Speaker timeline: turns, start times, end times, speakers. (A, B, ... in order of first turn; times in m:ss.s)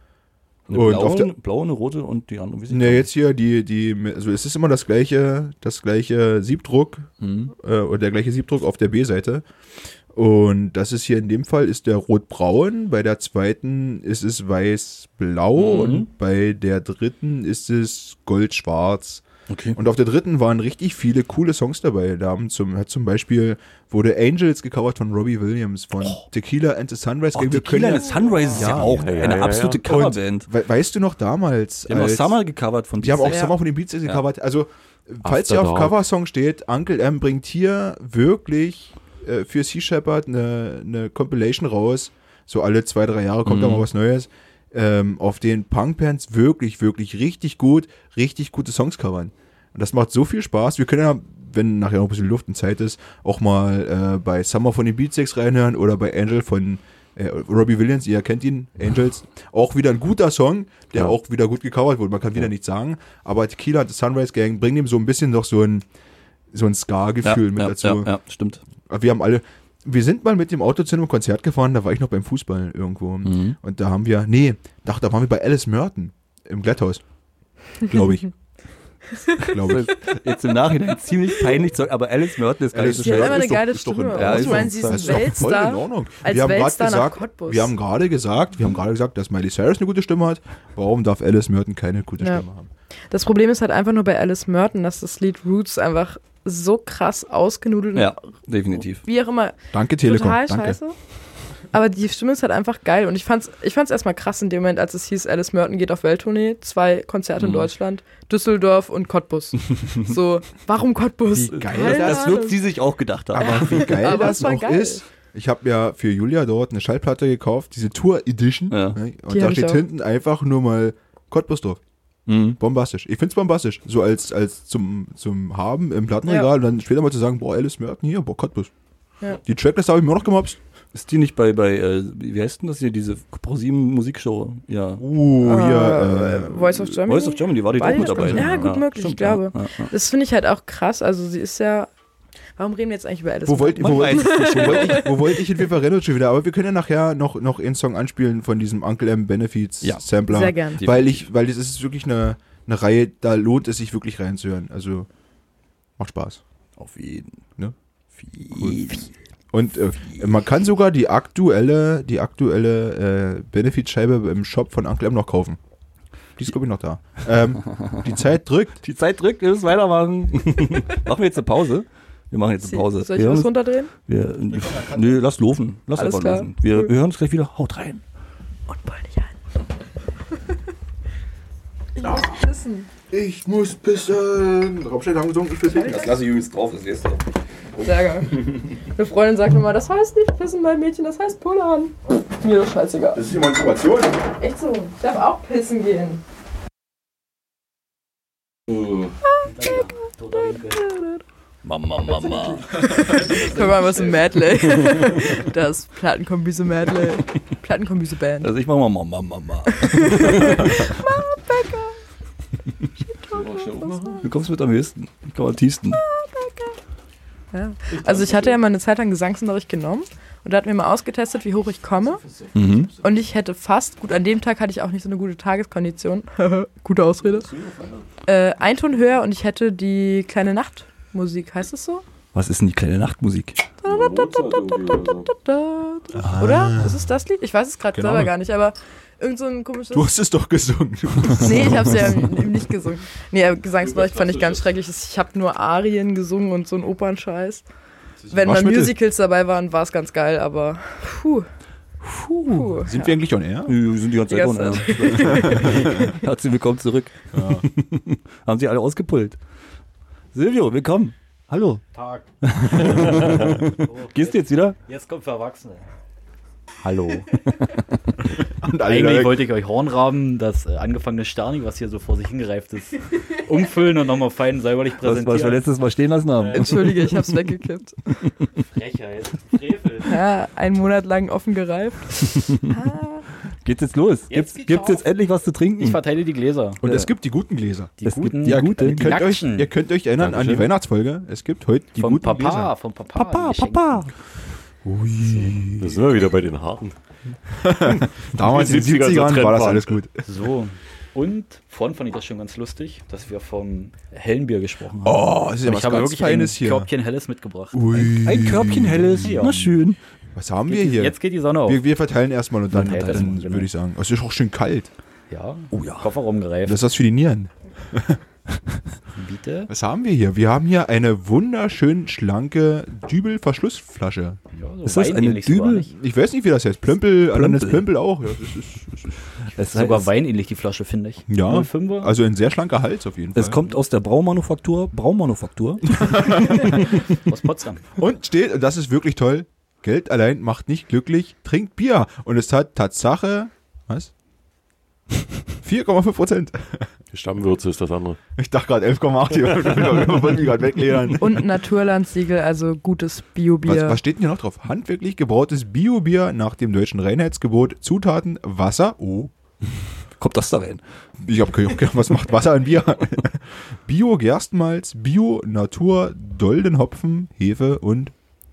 0:00.7-0:03.1 A
0:00.7-0:01.3 B
0:02.7-0:09.4 B
0:07.2-0:07.5 A
0:10.1-0:19.2 B
0:15.6-0:16.1 A
0:19.5-0:19.8 A
0:19.7-0:29.0 B
0:27.3-0:30.5 A
0:28.6-0:29.8 C
0:29.8-0:32.4 B
0:31.9-0:33.5 A
0:33.0-1:05.8 B
0:35.2-0:36.0 C
0:43.4-0:43.9 A
1:06.5-1:08.1 B
1:07.2-1:08.6 A
1:08.9-1:17.0 B
1:13.2-1:13.6 A
1:17.8-1:18.3 B
1:19.4-1:20.0 B
1:19.6-1:25.4 A
1:22.7-1:32.7 B
1:22.9-1:27.7 D
1:32.2-1:32.4 D
1:33.1-1:38.1 D
1:37.9-1:39.0 A
1:39.0-1:41.0 D
1:39.7-1:40.8 B
1:41.7-1:52.6 D
1:47.4-1:47.7 A
1:51.3-1:52.4 B
1:51.4-1:54.2 A
1:53.3-2:01.8 B
1:53.4-1:55.0 D
1:58.7-1:59.0 A
1:59.3-1:59.8 D
2:02.3-2:02.6 A
2:02.6-2:08.7 B
2:09.4-2:10.6 B
2:10.9-2:15.0 A
2:15.0-2:17.0 B
2:15.4-2:21.9 D
2:17.0-2:19.9 A
2:17.8-2:18.8 B
2:22.6-2:25.4 D
2:23.4-2:35.1 B
2:23.8-2:25.1 A
2:29.8-2:30.1 A
2:30.3-2:30.8 D
2:30.8-2:31.2 A
2:36.0-2:36.4 B
2:36.8-2:37.4 A
2:38.2-2:39.1 A
2:38.5-2:39.0 B
2:39.5-2:45.6 B
2:46.4-2:48.8 B
2:47.7-2:48.0 A
2:48.8-2:58.0 A
2:52.6-2:53.9 D
2:56.0-2:56.9 D
2:58.7-2:59.3 D
3:02.0-3:02.9 D
3:03.1-3:06.2 B
3:05.7-3:06.1 D
3:05.8-3:07.2 A
3:07.8-3:13.2 D
3:13.1-3:14.2 B
3:14.4-3:16.2 D
3:19.5-3:20.8 E
3:20.4-3:21.2 D
3:21.6-3:22.7 A
3:22.0-3:28.5 D
3:28.4-3:30.8 A
3:29.8-3:31.9 D
3:33.0-3:34.2 D
3:33.3-3:34.2 C
3:34.2-3:36.0 A
3:36.0-3:36.7 D
3:37.5-3:42.2 D
3:37.9-3:38.6 C
3:42.2-3:43.0 C
3:42.5-3:42.9 A
3:43.0-3:47.5 D
3:47.2-3:48.0 C
3:48.2-3:52.0 D
3:52.3-3:53.6 A
3:53.8-4:00.1 D
3:53.8-3:55.3 C
3:56.1-3:57.0 B
3:57.9-3:58.3 B
3:59.9-4:02.4 B
4:01.3-4:07.6 D
4:03.8-4:04.6 C
4:08.3-4:08.9 B
4:08.3-4:11.5 D
4:12.0-4:12.7 A
4:12.3-4:13.1 D
4:12.8-4:13.7 B
4:13.6-4:19.4 A
4:14.3-4:16.1 D
4:15.3-4:15.9 B
4:17.3-4:17.6 B
4:20.3-4:21.8 A
4:21.9-4:22.3 E
4:22.4-4:24.8 A
4:22.8-4:25.8 E
4:26.8-4:27.3 E
4:28.6-4:29.5 B
4:28.8-4:35.6 E
4:35.0-4:37.0 A
4:36.4-4:37.0 E
4:36.5-4:38.0 D
4:38.6-4:40.2 E
4:40.0-4:43.2 D
4:43.6-4:46.0 A
4:44.3-4:45.0 E
4:45.8-4:47.0 E
4:46.8-4:52.7 B
4:48.0-4:49.7 E
4:48.0-4:49.2 A
4:50.2-4:50.7 C
4:51.9-4:54.0 E
4:53.1-4:54.1 A
4:54.8-4:56.0 B
4:55.8-4:56.9 C
4:57.6-5:00.2 B
4:58.0-5:00.0 C
5:00.2-5:08.3 E
5:05.0-5:06.9 B
5:07.7-5:09.7 B
5:08.2-5:10.0 A
5:09.0-5:09.7 E
5:10.3-5:14.9 B
5:10.6-5:11.8 E
5:12.7-5:13.7 E
5:12.8-5:13.3 A
5:15.3-5:16.8 E
5:15.7-5:16.1 A
5:16.6-5:18.2 B
5:19.1-5:19.7 E
5:19.7-5:24.4 B
5:24.5-5:25.9 E
5:24.8-5:25.9 A
5:25.9-5:29.1 B
5:27.3-5:27.9 A
5:29.5-5:30.1 A
5:29.7-5:32.1 E
5:31.3-5:33.6 B
5:33.3-5:36.0 A
5:35.9-5:36.8 B
5:36.6-5:37.8 E
5:38.0-5:44.1 B
5:45.6-5:46.9 B
5:47.1-5:48.2 C
5:48.4-5:51.4 B
5:51.2-5:54.0 D
5:53.6-5:59.3 B
6:00.2-6:00.8 A
6:01.2-6:08.1 B